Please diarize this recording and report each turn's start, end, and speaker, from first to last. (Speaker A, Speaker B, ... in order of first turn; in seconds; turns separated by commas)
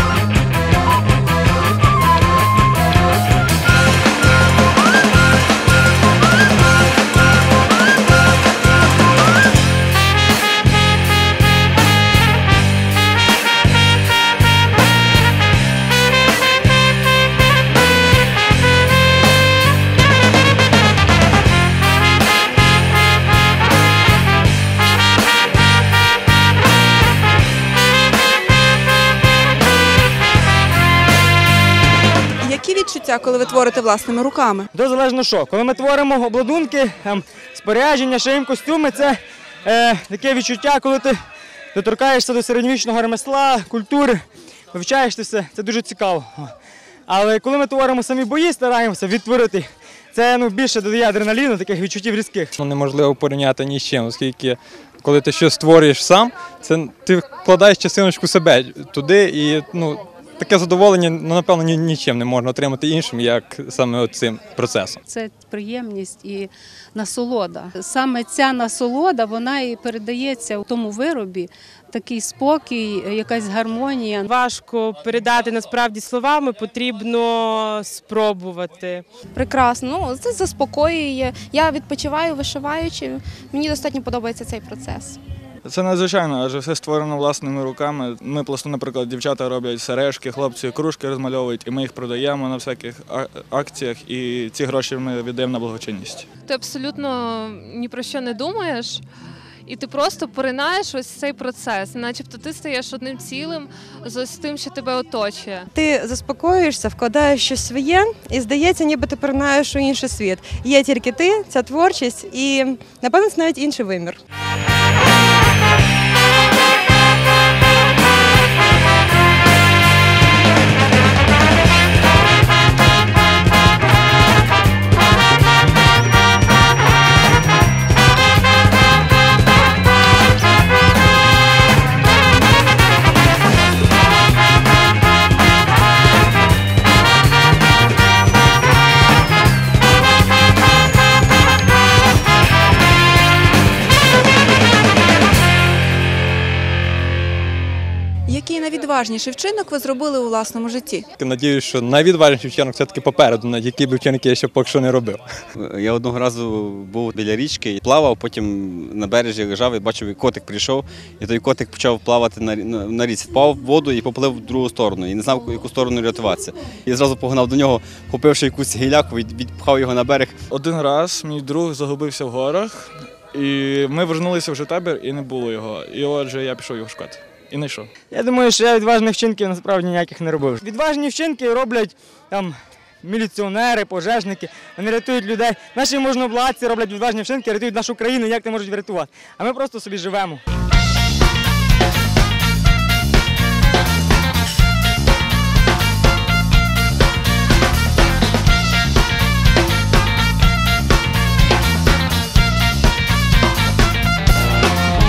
Speaker A: 32.4-34.7, Speaker B: 34.7-41.2, Speaker B: 41.8-44.2, Speaker B: 44.7-46.5, Speaker B: 47.1-52.5, Speaker C: 52.6-65.0, Speaker D: 65.1-74.3, Speaker E: 74.3-79.0, Speaker F: 79.4-85.2, Speaker G: 85.6-96.3, Speaker H: 96.5-99.0, Speaker H: 99.7-105.7, Speaker I: 105.7-114.2, Speaker A: 148.3-151.1, Speaker C: 151.2-155.2, Speaker J: 155.6-170.4, Speaker G: 170.5-177.9, Speaker B: 178.1-190.4